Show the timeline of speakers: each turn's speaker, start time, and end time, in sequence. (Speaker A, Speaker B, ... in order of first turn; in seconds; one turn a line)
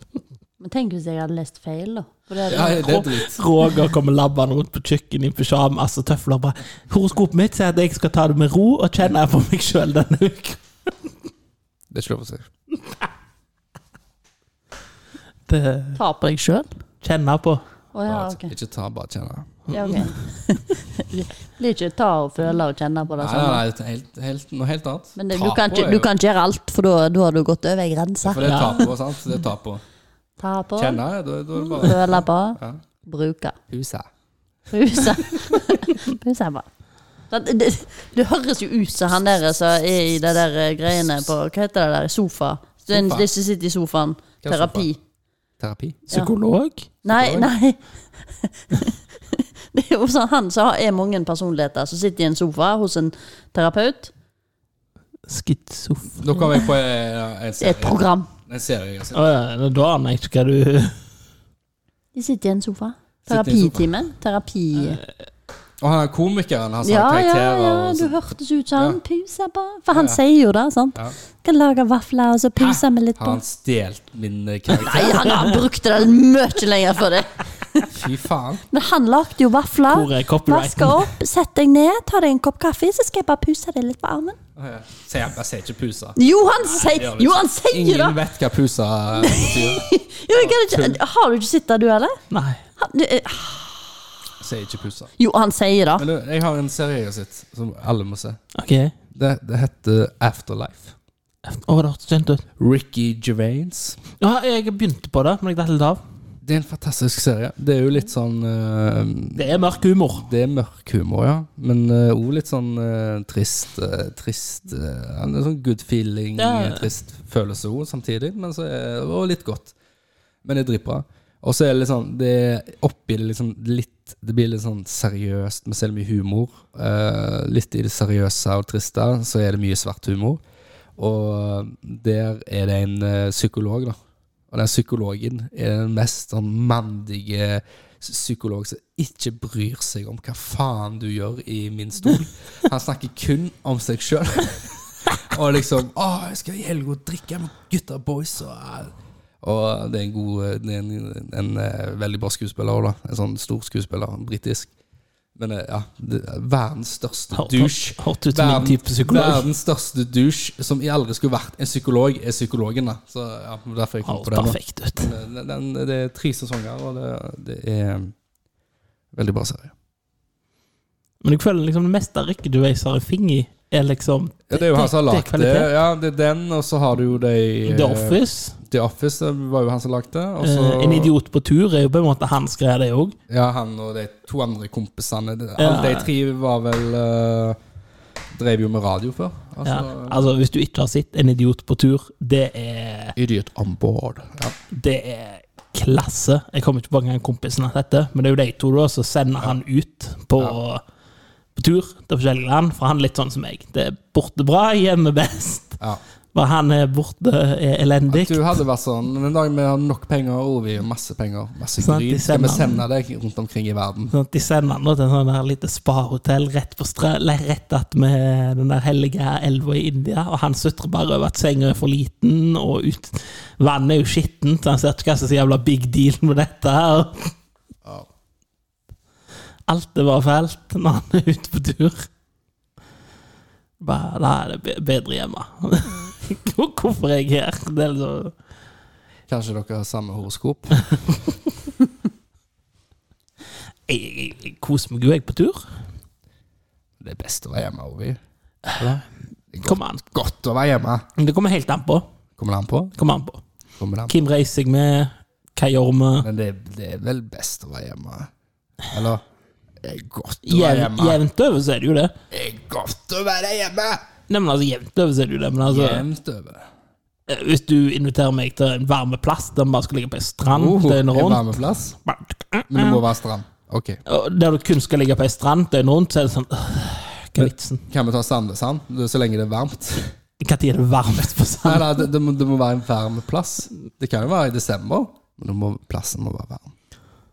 Speaker A: 0.6-3.0
Speaker B: 2.5-3.4
Speaker C: 2.7-10.9
Speaker B: 11.9-12.5
Speaker C: 15.5-16.0
Speaker A: 16.0-16.7
Speaker C: 17.0-17.6
Speaker A: 17.9-18.5
Speaker B: 18.1-19.7
Speaker A: 19.7-23.6
Speaker B: 23.2-26.1
Speaker A: 25.2-28.7
Speaker B: 28.2-29.8
Speaker C: 28.4-28.8
Speaker A: 30.4-31.0
Speaker B: 30.8-32.8
Speaker A: 31.8-33.6
Speaker B: 33.7-34.1
Speaker A: 34.7-36.7
Speaker A: 37.3-45.0
Speaker B: 42.9-43.3
Speaker B: 44.4-44.9
Speaker B: 45.6-46.1
Speaker C: 46.1-46.9
Speaker A: 47.0-47.8
Speaker B: 47.1-47.5
Speaker A: 48.3-54.1
Speaker C: 55.3-56.5
Speaker B: 56.2-59.3
Speaker A: 57.6-58.3
Speaker C: 59.1-61.0
Speaker A: 62.1-65.0
Speaker B: 63.3-63.9
Speaker B: 65.8-68.2
Speaker A: 66.8-73.4
Speaker B: 69.9-70.2
Speaker B: 72.6-75.5
Speaker A: 74.7-77.9
Speaker C: 75.1-75.5
Speaker B: 77.9-78.6
Speaker A: 78.7-84.4
Speaker C: 79.9-81.1
Speaker B: 84.5-91.0
Speaker A: 86.2-88.2
Speaker A: 89.2-92.2
Speaker C: 92.3-92.6
Speaker A: 92.8-94.0
Speaker B: 94.4-95.1
Speaker A: 95.2-96.0
Speaker B: 96.0-98.4
Speaker C: 98.5-98.9
Speaker B: 99.1-100.9
Speaker C: 101.5-102.4
Speaker B: 102.6-104.0
Speaker C: 104.2-106.0
Speaker B: 106.4-119.7
Speaker C: 109.3-110.3
Speaker C: 116.4-116.9
Speaker B: 120.4-130.4
Speaker B: 131.0-134.0
Speaker B: 134.5-154.7
Speaker B: 155.3-168.1
Speaker C: 157.3-159.4
Speaker C: 164.0-165.1
Speaker B: 169.1-169.7
Speaker C: 171.2-175.7
Speaker B: 174.5-181.1
Speaker C: 177.6-178.6
Speaker C: 180.4-183.2
Speaker B: 183.3-187.6
Speaker C: 185.6-186.1
Speaker B: 188.3-190.2
Speaker C: 189.6-193.1
Speaker B: 193.2-194.5
Speaker C: 194.7-200.8
Speaker C: 201.6-205.8
Speaker C: 206.3-208.6
Speaker B: 208.1-214.1
Speaker C: 211.8-212.8
Speaker C: 214.1-227.3
Speaker C: 229.7-232.1
Speaker C: 233.8-238.3
Speaker B: 239.3-240.9
Speaker C: 243.9-245.7
Speaker B: 247.0-248.2
Speaker B: 248.8-251.0
Speaker C: 249.6-250.0
Speaker C: 251.2-252.1
Speaker B: 252.4-252.9
Speaker C: 253.0-253.4
Speaker B: 253.8-254.1
Speaker C: 254.1-256.3
Speaker B: 256.2-258.3
Speaker B: 258.9-259.2
Speaker B: 259.8-261.2
Speaker C: 260.4-262.1
Speaker B: 262.3-264.0
Speaker C: 264.3-266.0
Speaker B: 265.6-266.7
Speaker C: 267.3-273.0
Speaker B: 270.5-272.0
Speaker B: 272.7-274.0
Speaker C: 274.1-277.8
Speaker B: 277.4-280.1
Speaker C: 280.4-282.1
Speaker B: 281.6-286.7